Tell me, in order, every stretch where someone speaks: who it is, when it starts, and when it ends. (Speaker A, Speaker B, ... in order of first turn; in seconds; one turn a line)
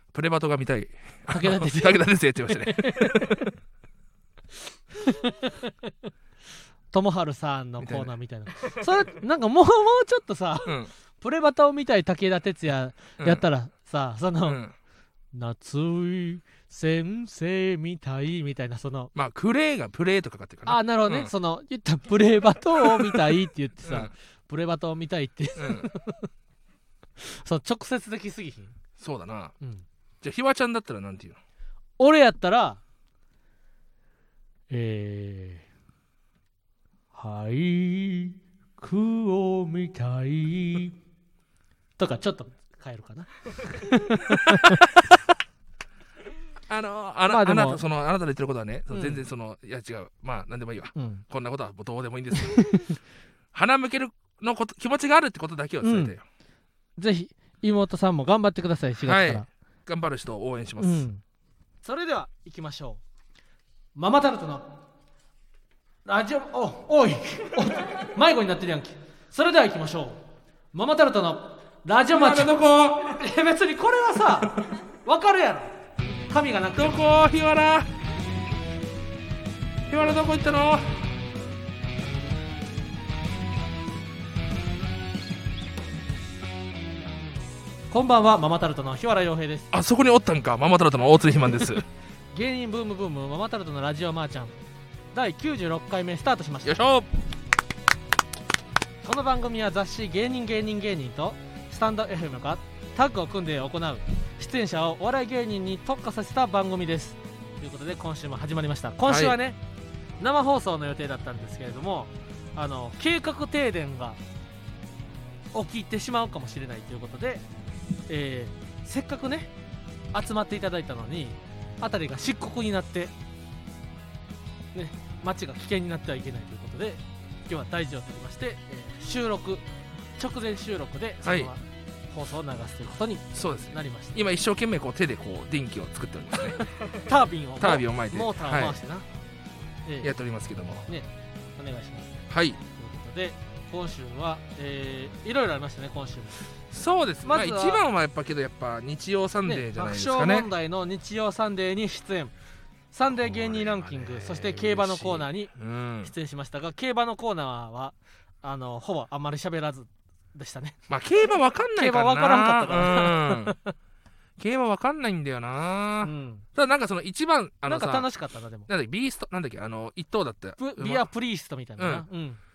Speaker A: 0.1-3.4
Speaker B: 1.3-3.5
Speaker B: 5.0-5.9
Speaker B: 6.9-14.6
Speaker A: 7.8-8.1
Speaker A: 10.6-10.9
Speaker A: 14.4-14.7
Speaker B: 15.3-19.1
Speaker A: 19.1-21.3
Speaker B: 20.6-26.3
Speaker A: 22.8-23.3
Speaker A: 23.9-24.1
Speaker A: 25.6-25.9
Speaker B: 27.2-28.7
Speaker A: 29.0-29.5
Speaker A: 30.2-31.4
Speaker B: 32.0-32.8
Speaker B: 34.7-35.6
Speaker B: 37.1-41.0
Speaker B: 42.0-45.2
Speaker A: 44.5-44.8
Speaker A: 46.7-52.9
Speaker B: 47.3-47.8
Speaker B: 48.9-49.2
Speaker B: 51.0-51.2
Speaker B: 52.3-53.0
Speaker A: 53.5-56.2
Speaker B: 55.8-56.1
Speaker B: 57.0-59.5
Speaker A: 59.0-61.0
Speaker B: 60.8-61.2
Speaker B: 61.8-63.0
Speaker B: 64.0-64.7
Speaker B: 66.0-70.2
Speaker B: 70.7-72.5
Speaker A: 72.1-73.2
Speaker B: 73.1-75.7
Speaker B: 76.3-77.0
Speaker A: 76.8-77.9
Speaker A: 79.9-81.0
Speaker B: 87.9-89.7
Speaker A: 89.7-91.8
Speaker B: 92.3-94.5
Speaker B: 95.1-96.8
Speaker A: 96.6-97.1
Speaker B: 99.0-109.6
Speaker A: 109.1-109.4
Speaker B: 110.2-114.2
Speaker B: 115.5-117.4
Speaker B: 118.1-119.5
Speaker B: 120.1-123.1
Speaker B: 124.7-129.6
Speaker B: 130.2-134.2
Speaker A: 131.2-131.5
Speaker A: 133.3-136.6
Speaker B: 136.9-139.1
Speaker A: 137.6-138.8
Speaker B: 139.8-140.1
Speaker A: 140.0-140.8
Speaker B: 140.9-146.4
Speaker A: 142.3-142.6
Speaker A: 146.7-150.5
Speaker B: 147.2-147.8
Speaker B: 149.4-152.3
Speaker B: 152.9-155.5
Speaker A: 153.1-156.1
Speaker B: 156.0-160.8
Speaker A: 160.9-163.6
Speaker B: 161.8-163.7
Speaker A: 164.4-168.1
Speaker B: 166.0-166.4
Speaker B: 167.7-168.7
Speaker A: 168.7-171.1
Speaker B: 170.6-172.4
Speaker A: 171.8-172.1